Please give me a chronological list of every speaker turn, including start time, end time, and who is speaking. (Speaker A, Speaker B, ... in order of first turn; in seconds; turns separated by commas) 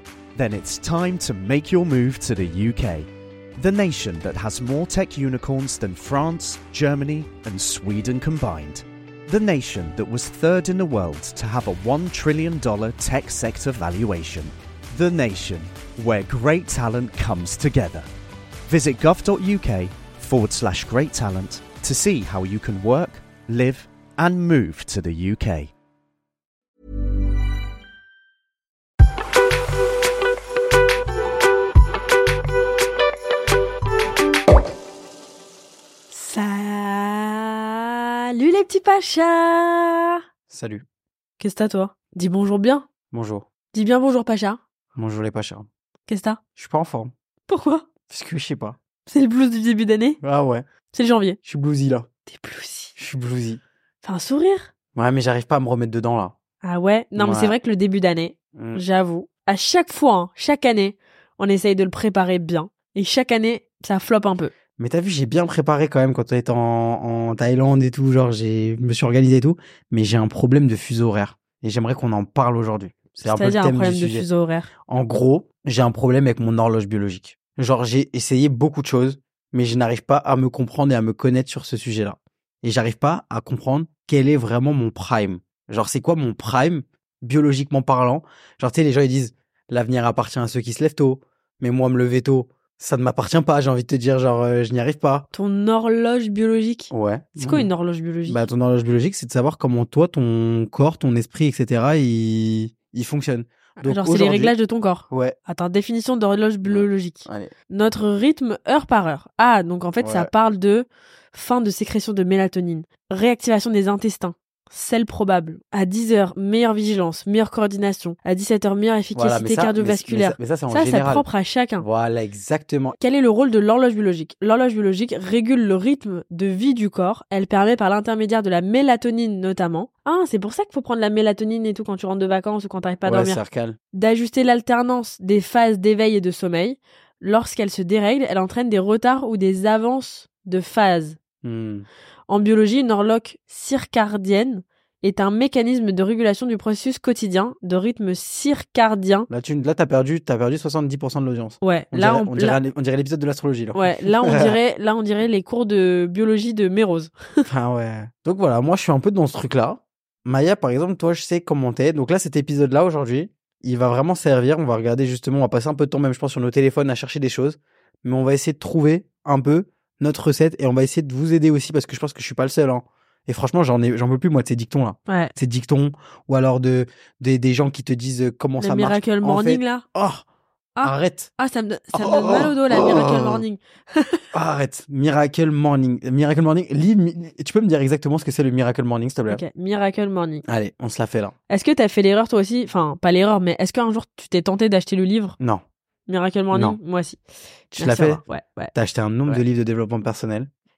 Speaker A: 0.3-3.1, Speaker A: 3.6-18.1, Speaker A: 18.7-25.7, Speaker B: 36.1-40.2, Speaker C: 40.5-40.9, Speaker B: 41.4-42.9, Speaker C: 43.1-43.5, Speaker B: 43.7-44.6, Speaker C: 45.0-45.7, Speaker B: 46.1-46.4, Speaker C: 46.6-47.1, Speaker B: 47.5-47.9, Speaker C: 48.1-48.8, Speaker B: 49.1-50.2, Speaker C: 50.2-50.7, Speaker B: 50.9-51.4, Speaker C: 51.5-52.1, Speaker B: 52.3-53.0, Speaker C: 53.0-53.6, Speaker B: 54.0-54.7, Speaker C: 55.0-56.4, Speaker B: 56.6-64.5, Speaker C: 57.2-57.5, Speaker C: 58.5-58.8, Speaker C: 64.8-74.3, Speaker B: 73.2-74.7, Speaker C: 74.9-95.3, Speaker B: 95.3-98.4, Speaker C: 96.9-97.7, Speaker C: 98.3-104.5, Speaker B: 103.8-121.8, Speaker C: 105.1-105.4, Speaker C: 106.7-107.5, Speaker C: 110.0-110.3, Speaker C: 119.1-121.3, Speaker C: 121.8-123.0, Speaker B: 123.0-133.4, Speaker C: 133.1-133.8, Speaker B: 133.9-141.2, Speaker C: 141.4-141.9, Speaker B: 142.3-149.3, Speaker C: 149.3-154.6, Speaker B: 151.6-152.6, Speaker B: 153.8-157.5, Speaker C: 157.5-180.2, Speaker B: 175.1-175.3, Speaker B: 178.6-179.8, Speaker B: 180.8-184.3, Speaker C: 180.8-181.3, Speaker C: 181.9-183.4, Speaker C: 184.3-189.4, Speaker B: 189.3-190.4, Speaker C: 190.4-191.3, Speaker B: 191.5-195.4, Speaker B: 196.1-197.2, Speaker C: 196.5-196.8, Speaker B: 197.7-198.7, Speaker C: 197.7-198.2, Speaker C: 198.7-200.5